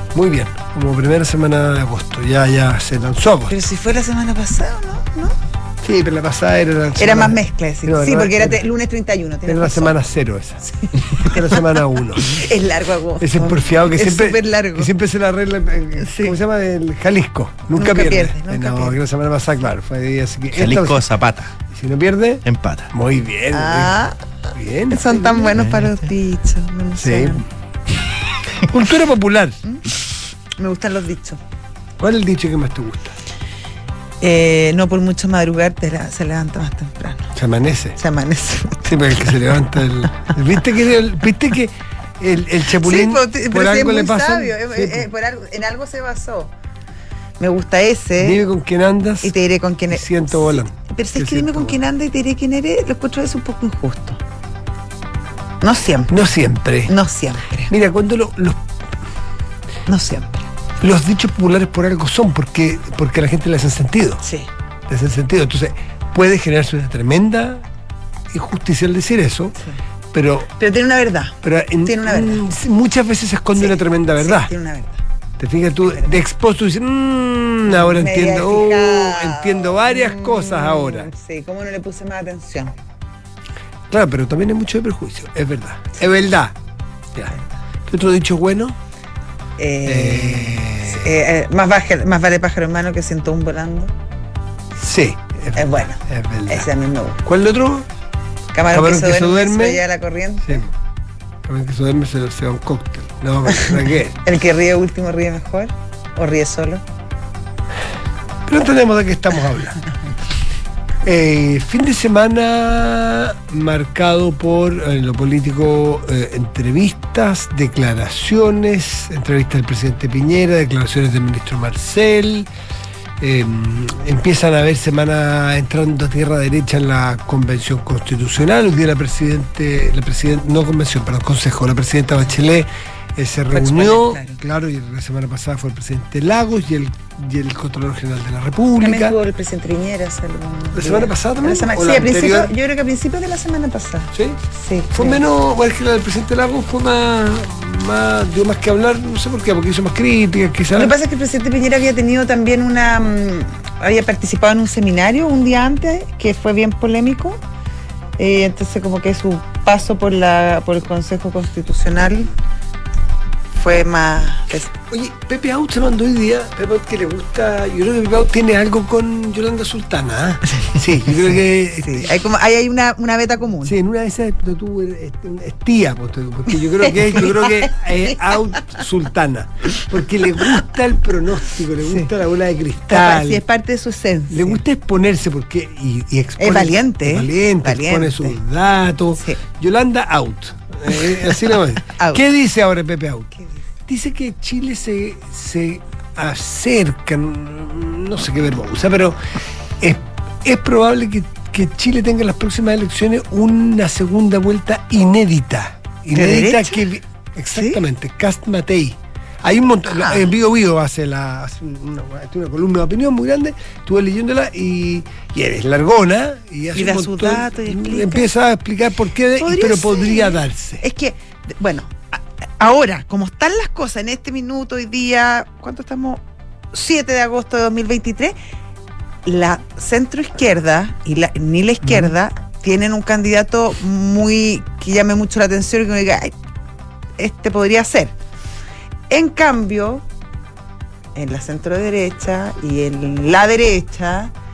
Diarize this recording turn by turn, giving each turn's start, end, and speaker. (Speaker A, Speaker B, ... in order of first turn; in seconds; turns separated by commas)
Speaker A: 0.1-3.6, Speaker B: 3.5-5.3, Speaker A: 5.8-8.6, Speaker B: 7.0-9.9, Speaker A: 9.4-12.5, Speaker B: 10.6-11.6, Speaker B: 12.2-14.9, Speaker A: 13.2-21.0, Speaker B: 16.0-16.4, Speaker B: 17.8-18.9, Speaker C: 20.5-21.5, Speaker A: 21.6-24.0, Speaker C: 22.4-22.9, Speaker B: 23.5-24.2, Speaker A: 24.5-25.6, Speaker B: 24.9-27.4, Speaker C: 25.5-26.0, Speaker A: 27.0-27.5, Speaker A: 28.6-29.6, Speaker B: 30.6-31.4, Speaker A: 32.0-33.1, Speaker B: 34.2-37.3, Speaker A: 37.3-38.0, Speaker B: 38.0-38.9, Speaker A: 38.8-45.1, Speaker B: 42.8-46.5, Speaker B: 47.4-48.4, Speaker A: 48.2-49.3, Speaker B: 49.2-54.2, Speaker A: 49.9-51.8, Speaker B: 55.6-56.1, Speaker A: 56.1-56.9, Speaker B: 56.9-57.7, Speaker A: 57.7-58.7, Speaker B: 59.9-60.5, Speaker A: 60.8-64.2, Speaker B: 64.2-64.5, Speaker A: 64.9-67.6, Speaker A: 68.3-69.5, Speaker A: 70.1-70.5, Speaker B: 70.6-72.4, Speaker A: 71.4-74.5, Speaker B: 73.5-75.0, Speaker A: 75.4-81.1, Speaker B: 75.8-76.2, Speaker B: 77.7-82.7, Speaker A: 83.9-86.5, Speaker A: 87.9-88.8, Speaker B: 89.6-93.9, Speaker A: 89.8-91.1, Speaker A: 94.8-96.7, Speaker B: 95.5-97.2, Speaker A: 97.2-97.9, Speaker B: 98.5-100.6, Speaker A: 98.7-99.8, Speaker A: 101.4-104.2, Speaker B: 104.2-106.8, Speaker A: 108.5-109.8, Speaker A: 111.0-122.5, Speaker A: 123.2-139.2, Speaker B: 133.5-134.4, Speaker B: 138.8-145.2, Speaker A: 140.7-142.5, Speaker A: 144.1-144.4, Speaker A: 144.9-150.9, Speaker B: 150.7-157.4, Speaker B: 158.2-162.3, Speaker B: 163.5-164.7, Speaker A: 164.7-172.2, Speaker B: 171.8-173.8, Speaker A: 173.6-183.4, Speaker B: 176.8-178.8, Speaker B: 182.9-184.6, Speaker A: 184.3-193.3, Speaker B: 186.4-188.4, Speaker B: 190.9-192.2, Speaker A: 193.8-199.2, Speaker A: 199.8-220.8, Speaker B: 206.1-206.8, Speaker B: 207.5-207.8, Speaker B: 209.9-210.3, Speaker B: 216.7-218.3, Speaker B: 219.4-228.3, Speaker B: 229.2-236.3, Speaker A: 231.8-232.1, Speaker B: 237.2-238.1, Speaker B: 239.1-240.0, Speaker B: 241.1-244.3